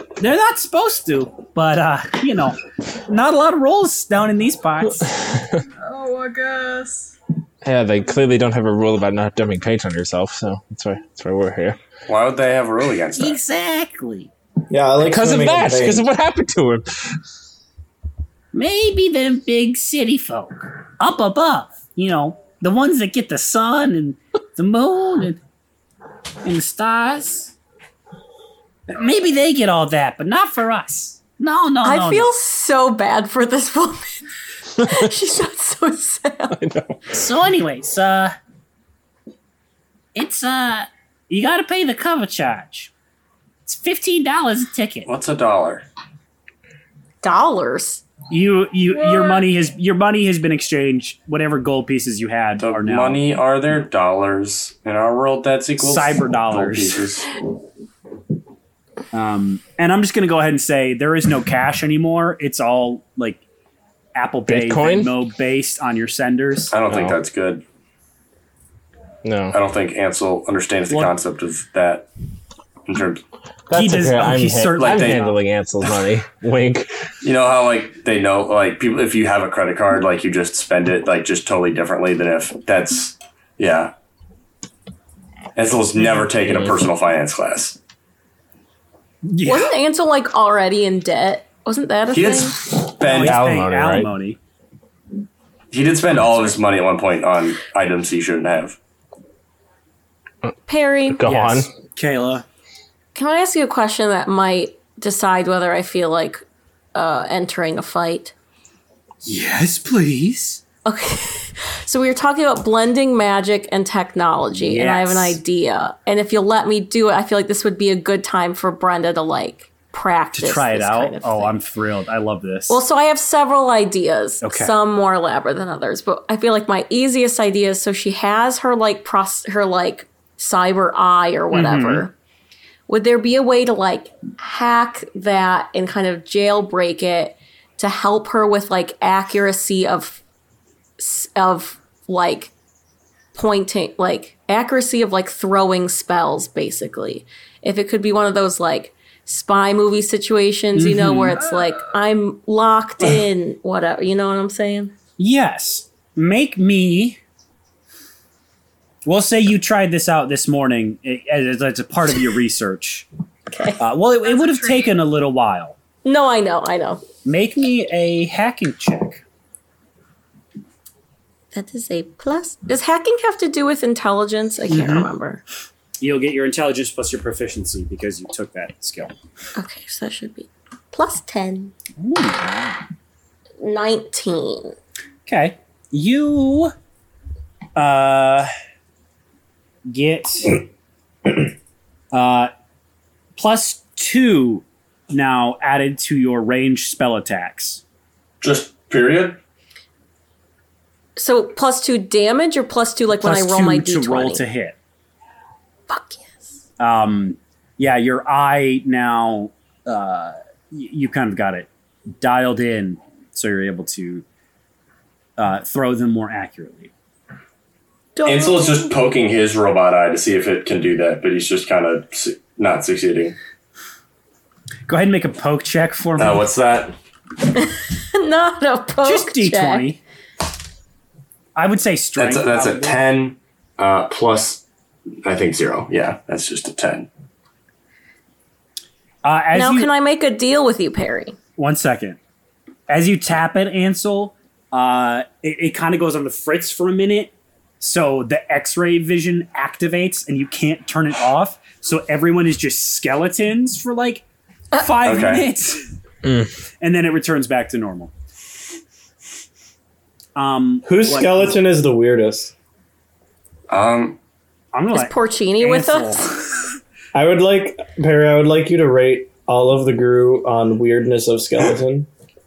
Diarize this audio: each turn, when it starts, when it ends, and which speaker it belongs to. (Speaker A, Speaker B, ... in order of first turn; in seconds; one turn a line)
Speaker A: 0.2-5.1
Speaker B: 5.2-5.6
Speaker C: 5.8-7.1
Speaker B: 7.6-11.8
Speaker D: 12.1-13.4
Speaker A: 13.2-14.3
Speaker E: 14.7-16.0
Speaker B: 15.0-16.9
Speaker A: 18.5-25.4
Speaker A: 26.4-27.5
Speaker A: 28.9-32.3
Speaker F: 31.8-34.2
Speaker F: 34.8-36.6
Speaker B: 36.5-37.0
Speaker A: 37.1-38.3
Speaker A: 40.1-42.9
Speaker A: 43.6-45.1
Speaker D: 45.0-45.8
Speaker F: 47.2-48.0
Speaker A: 48.3-53.2
Speaker C: 48.9-49.5
Speaker D: 52.6-57.2
Speaker A: 55.8-57.2
Speaker A: 59.1-63.4
Speaker A: 64.1-66.7
Speaker B: 64.5-65.1
Speaker D: 66.7-67.6
Speaker B: 66.9-67.2
Speaker B: 69.2-69.5
Speaker D: 69.5-72.1
Speaker A: 70.9-71.1
Speaker D: 72.9-73.2
Speaker B: 73.7-76.9
Speaker A: 73.7-75.4
Speaker D: 74.8-75.2
Speaker D: 77.2-83.9
Speaker D: 85.5-87.8
Speaker B: 86.4-86.7
Speaker A: 89.2-89.8
Speaker F: 89.4-92.6
Speaker D: 92.1-93.5
Speaker A: 93.0-94.4
Speaker B: 93.1-94.1
Speaker D: 95.7-98.8
Speaker F: 100.7-101.2
Speaker B: 101.1-101.7
Speaker A: 101.2-102.4
Speaker F: 103.1-106.4
Speaker F: 106.9-108.3
Speaker A: 109.2-110.6
Speaker F: 110.8-121.5
Speaker A: 114.6-115.4
Speaker A: 120.3-122.8
Speaker F: 122.7-132.1
Speaker A: 124.4-124.7
Speaker A: 131.5-132.1
Speaker F: 132.9-140.2
Speaker F: 141.0-142.5
Speaker F: 143.3-154.9
Speaker A: 150.7-151.4
Speaker C: 151.3-152.0
Speaker A: 155.2-157.2
Speaker A: 159.0-163.1
Speaker F: 163.5-163.8
Speaker A: 163.8-165.8
Speaker C: 164.2-165.0
Speaker F: 166.0-167.0
Speaker A: 167.2-169.2
Speaker F: 171.5-175.4
Speaker A: 174.7-175.1
Speaker A: 176.0-179.1
Speaker F: 179.6-181.7
Speaker A: 182.0-182.8
Speaker F: 183.6-184.7
Speaker A: 185.2-186.7
Speaker A: 187.8-188.5
Speaker A: 189.9-190.6
Speaker A: 192.1-192.5
Speaker A: 193.3-197.8
Speaker D: 198.4-199.4
Speaker F: 201.2-204.4
Speaker A: 203.2-204.8
Speaker F: 205.9-206.4
Speaker A: 206.8-214.2
Speaker A: 215.4-216.9
Speaker F: 218.2-218.9
Speaker D: 218.2-223.3
Speaker A: 224.9-226.4
Speaker D: 226.2-226.9
Speaker F: 227.5-229.9
Speaker A: 229.0-230.0
Speaker A: 231.6-233.0
Speaker D: 232.2-234.6
Speaker D: 235.2-237.1
Speaker A: 239.2-239.9
Speaker F: 239.5-241.4
Speaker A: 241.6-242.2
Speaker A: 242.9-255.8
Speaker D: 255.0-255.5
Speaker B: 256.2-256.5
Speaker A: 256.8-258.1
Speaker A: 260.4-261.6
Speaker E: 260.8-262.5
Speaker D: 263.7-264.2
Speaker A: 264.7-266.6
Speaker F: 264.9-266.3
Speaker E: 267.1-272.1